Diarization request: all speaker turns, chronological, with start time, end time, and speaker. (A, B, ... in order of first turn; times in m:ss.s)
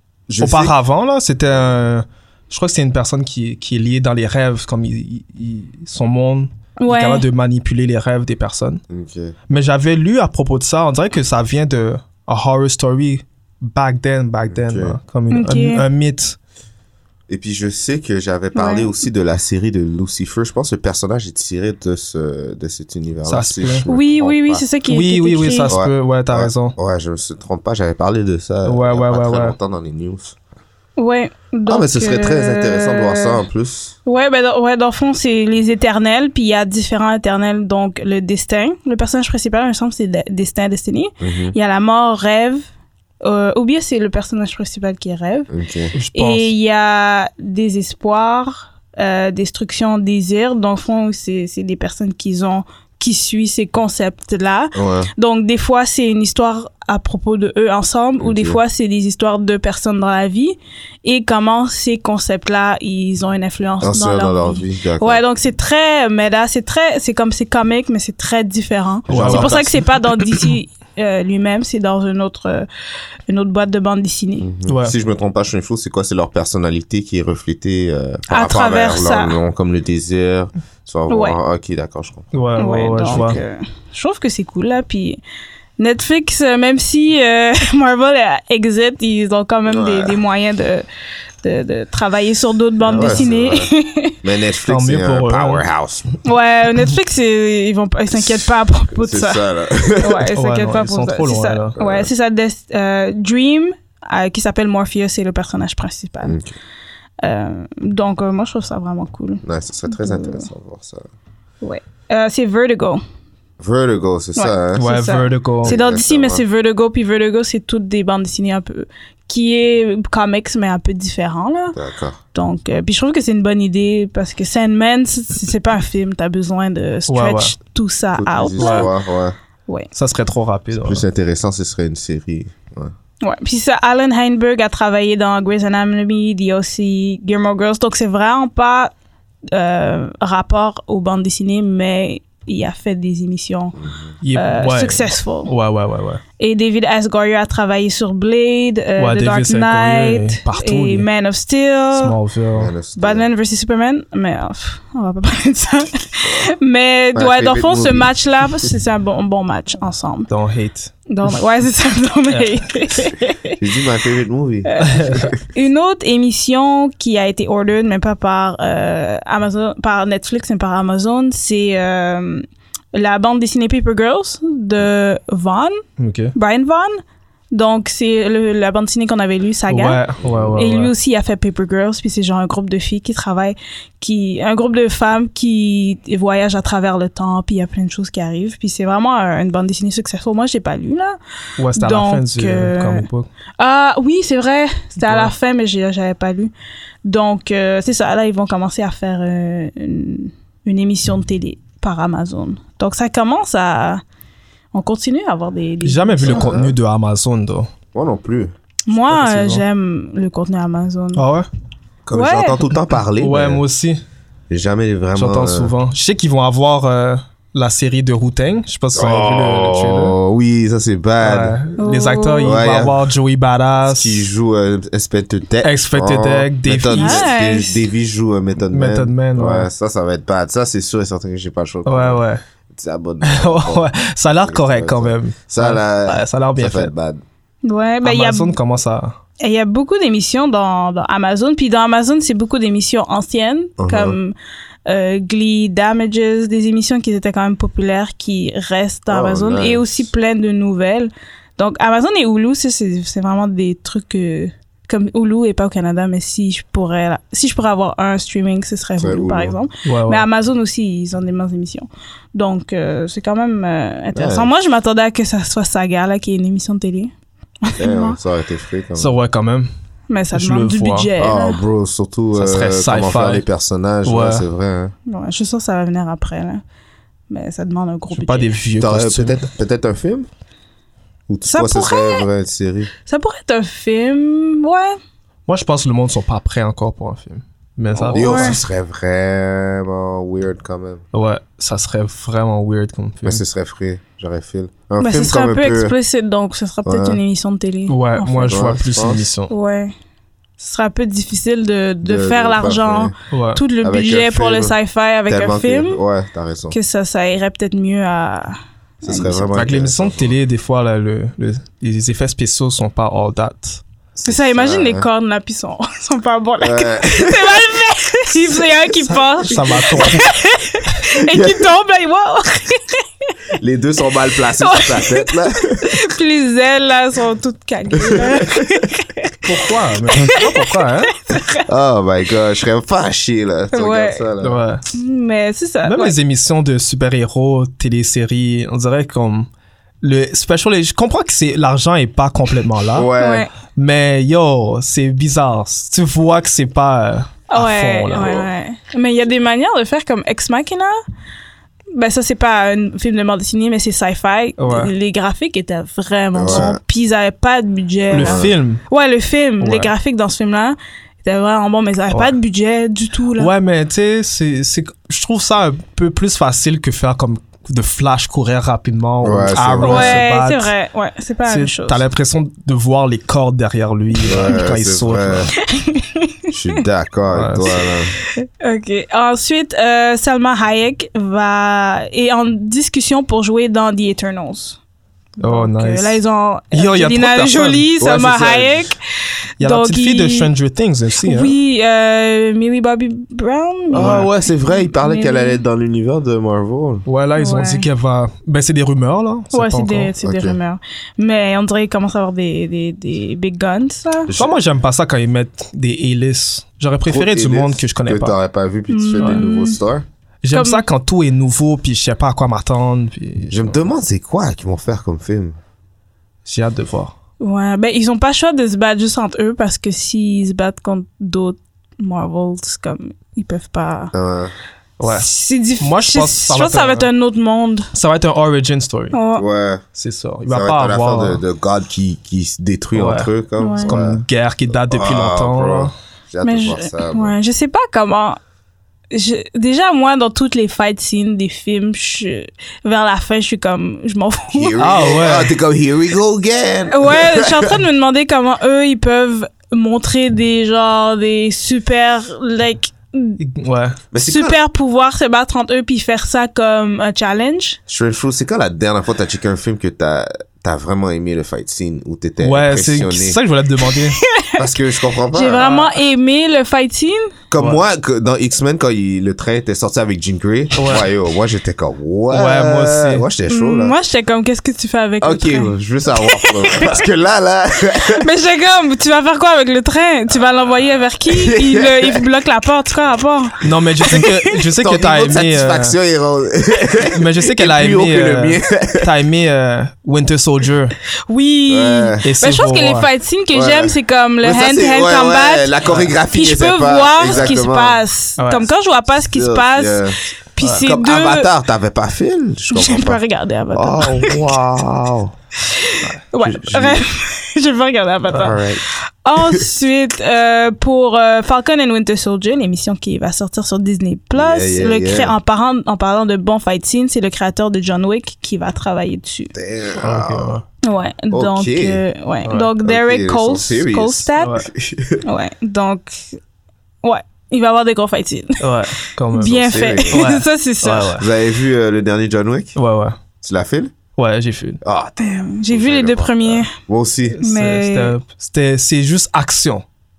0:00.3-0:00.7 A
0:00.4-0:08.8 B
0:06.8-0:07.2 C
0:08.9-0:09.4 A
0:09.5-0:16.4 B
0:14.5-0:15.0 A
0:15.3-0:15.8 C
0:17.3-0:24.7 A
0:18.6-0:18.9 C
0:23.3-0:23.9 B
0:23.9-0:25.8 C
0:24.9-0:26.8 B
0:25.7-0:30.4 A
0:28.6-0:29.6 B
0:31.0-0:33.4 C
0:31.7-0:34.0 A
0:34.0-0:42.7 C
0:41.2-0:41.6 A
0:43.2-0:45.5 C
0:45.5-0:45.9 A
0:45.9-0:46.5 B
0:46.1-1:12.7 C
0:54.8-0:55.1 A
0:58.2-0:58.6 A
1:03.8-1:05.2 A
1:09.1-1:09.8 A
1:09.1-1:09.7 B
1:13.3-1:14.5 C
1:14.4-1:22.3 A
1:14.7-1:15.0 B
1:18.3-1:19.4 C
1:21.1-1:21.4 C
1:22.3-1:23.4 B
1:22.6-1:25.2 C
1:23.0-1:23.4 A
1:25.8-1:30.8 C
1:29.7-1:30.2 A
1:31.4-1:34.2 C
1:32.9-1:33.7 A
1:34.2-1:36.1 A
1:34.7-1:35.6 B
1:36.2-1:39.4 C
1:38.1-1:40.3 A
1:40.0-1:46.4 C
1:40.4-1:41.8 B
1:41.8-1:42.1 A
1:46.2-1:46.5 A
1:47.2-1:50.5 C
1:49.4-1:51.1 A
1:51.6-1:53.0 C
1:53.6-1:54.8 A
1:54.4-2:01.8 C
1:54.7-1:55.8 B
1:55.6-1:56.4 A
2:01.7-2:02.2 A
2:02.3-2:08.9 C
2:07.1-2:07.5 B
2:08.1-2:09.4 A
2:08.6-2:08.9 B
2:09.9-2:11.0 B
2:10.8-2:12.9 A
2:13.2-2:18.9 C
2:19.5-2:23.8 C
2:23.8-2:24.2 A
2:24.2-2:26.2 B
2:24.3-2:25.5 C
2:26.4-2:32.2 C
2:29.0-2:31.1 B
2:31.9-2:32.7 B
2:32.5-2:33.3 A
2:33.0-2:40.3 C
2:36.2-2:36.5 A
2:37.2-2:38.2 A
2:40.3-2:40.9 B
2:41.1-2:43.6 C
2:42.3-2:42.6 B
2:43.6-2:45.3 A
2:44.6-2:55.8 C
2:44.8-2:45.3 B
2:56.0-2:56.3 B
2:56.3-2:57.0 C
2:57.5-3:00.0 C
2:59.7-3:00.9 B
3:00.2-3:00.6 A
3:00.6-3:11.2 C
3:11.6-3:13.3 B
3:11.7-3:13.1 C
3:13.6-3:16.5 C
3:15.0-3:15.3 B
3:17.0-3:24.0 C
3:24.7-3:26.6 C
3:25.8-3:27.7 B
3:26.2-3:26.8 A
3:27.9-3:28.5 A
3:28.9-3:31.2 C
3:28.9-3:29.6 B
3:31.2-3:31.5 B
3:32.1-3:33.6 A
3:32.1-3:32.6 C
3:33.2-3:34.0 B
3:34.5-3:35.7 A
3:35.2-3:40.2 B
3:38.9-3:41.6 A
3:41.2-3:44.3 B
3:41.8-3:42.6 C
3:42.4-3:43.1 A
3:43.8-3:53.9 A
3:45.6-3:47.3 B
3:46.9-3:47.8 C
3:48.7-3:49.7 B
3:51.9-3:52.4 B
3:53.2-3:56.9 B
3:54.4-3:57.2 A
3:57.6-3:58.6 C
3:58.0-3:59.2 B
3:59.4-4:04.4 C
4:03.8-4:04.2 A
4:04.9-4:27.1 C
4:09.1-4:10.1 A
4:19.0-4:19.6 A
4:19.9-4:20.3 B
4:24.1-4:24.5 A
4:27.6-4:28.2 C
4:27.8-4:29.1 A
4:29.0-4:29.7 B
4:30.1-4:31.6 C
4:30.3-4:31.1 B
4:31.2-4:34.9 A
4:32.4-4:33.4 B
4:34.0-4:34.4 B
4:35.1-4:36.6 C
4:37.3-4:38.5 C
4:38.1-4:39.5 B
4:38.8-4:40.3 A
4:41.3-4:42.9 A
4:41.4-4:42.3 C
4:43.1-4:45.0 C
4:45.5-4:48.6 B
4:48.0-4:51.0 A
4:48.1-4:48.6 C
4:51.1-4:53.4 B
4:53.2-4:56.0 A
4:55.0-4:58.5 C
4:56.8-4:57.2 A
4:57.9-4:59.5 B
4:58.4-4:59.2 A
4:59.5-4:59.9 C
5:00.6-5:06.0 C
5:02.0-5:03.1 A
5:03.3-5:03.6 B
5:03.8-5:04.8 A
5:05.3-5:06.8 A
5:06.7-5:09.5 C
5:09.0-5:10.4 A
5:09.5-5:13.8 B
5:14.2-5:15.1 A
5:14.3-5:23.3 C
5:16.6-5:17.7 A
5:19.4-5:20.3 B
5:21.2-5:21.7 A
5:23.6-5:26.0 A
5:24.6-5:31.6 C
5:28.0-5:28.8 A
5:29.4-5:31.1 B
5:31.7-5:34.6 A
5:33.7-5:34.2 C
5:34.4-5:34.8 B
5:34.9-5:36.2 C
5:35.8-5:39.5 B
5:40.0-5:43.1 B
5:42.9-5:43.5 A
5:43.2-5:43.5 C
5:43.7-5:48.4 B
5:47.5-5:51.0 C
5:52.0-6:03.5 C
5:54.6-5:54.9 B
5:56.3-5:56.8 A
5:58.1-5:58.5 A
5:58.1-5:58.8 B
5:59.6-5:59.9 B
6:03.4-6:10.7 B
6:09.2-6:10.2 A
6:09.8-6:12.0 C
6:11.5-6:15.5 B
6:14.2-6:15.5 A
6:15.6-6:16.5 C
6:16.5-6:18.2 A
6:17.3-6:17.7 B
6:18.4-6:24.8 C
6:25.4-6:29.0 C
6:25.4-6:26.2 B
6:26.7-6:27.9 B
6:28.0-6:28.9 A
6:29.6-6:31.5 B
6:29.6-6:30.5 C
6:31.2-6:35.6 C
6:33.9-6:37.1 A
6:34.0-6:34.3 B
6:37.1-6:40.1 B
6:37.4-6:37.9 C
6:39.5-6:44.3 C
6:40.2-6:40.6 A
6:44.3-6:48.4 B
6:47.1-6:50.0 A
6:48.9-6:49.8 C
6:50.4-6:53.8 B
6:50.5-6:50.8 C
6:53.5-6:55.6 A
6:56.5-6:57.1 B
6:57.4-7:04.1 C
7:04.1-7:04.5 A
7:05.0-7:07.1 B
7:05.1-7:07.9 C
7:07.9-7:09.2 B
7:09.1-7:09.4 C
7:09.4-7:09.8 A
7:10.0-7:11.4 B
7:10.5-7:14.2 A
7:12.9-7:13.3 B
7:13.6-7:13.9 C
7:13.8-7:15.9 B
7:14.9-7:17.4 A
7:16.4-7:18.4 C
7:19.1-7:24.8 C
7:24.5-7:27.8 A
7:24.8-7:25.6 B
7:26.9-7:33.4 C
7:33.4-7:34.0 B
7:34.1-7:34.6 A
7:34.2-7:37.8 C
7:37.9-7:43.4 A
7:42.4-7:44.2 B
7:44.0-7:44.6 C
7:44.6-7:45.6 A
7:45.3-7:47.4 C
7:45.6-7:45.9 B
7:47.5-7:54.0 A
7:50.8-7:51.1 B
7:52.3-7:53.2 B
7:53.5-7:57.0 C
7:55.2-7:58.2 A
7:58.0-8:04.4 C
8:01.3-8:02.2 A
8:03.6-8:06.0 B
8:04.8-8:09.1 A
8:07.1-8:11.0 B
8:11.3-8:15.8 C
8:11.7-8:12.3 A
8:12.2-8:13.1 B
8:13.5-8:18.0 A
8:15.8-8:16.1 B
8:16.3-8:21.5 C
8:17.2-8:17.6 B
8:18.4-8:18.7 B
8:19.2-8:20.2 A
8:20.8-8:23.2 A
8:22.7-8:24.6 C
8:23.7-8:25.3 A
8:25.6-8:39.5 C
8:26.4-8:27.0 A
8:28.3-8:28.8 A
8:29.4-8:29.6 A
8:34.3-8:35.3 A
8:39.5-8:40.6 A
8:40.0-8:40.6 B
8:40.8-8:44.6 C
8:41.3-8:42.0 A
8:42.4-8:42.7 B
8:42.8-8:45.2 A
8:44.4-8:44.7 B
8:45.2-8:46.4 C
8:47.0-8:51.2 C
8:48.6-8:51.3 B
8:49.4-8:50.3 A
8:51.2-8:52.8 A
8:52.8-8:53.2 B
8:53.4-8:53.9 A
8:54.2-8:54.8 B
8:54.8-8:57.4 A
8:55.2-8:56.8 C
8:57.4-8:59.8 B
8:57.4-8:58.2 C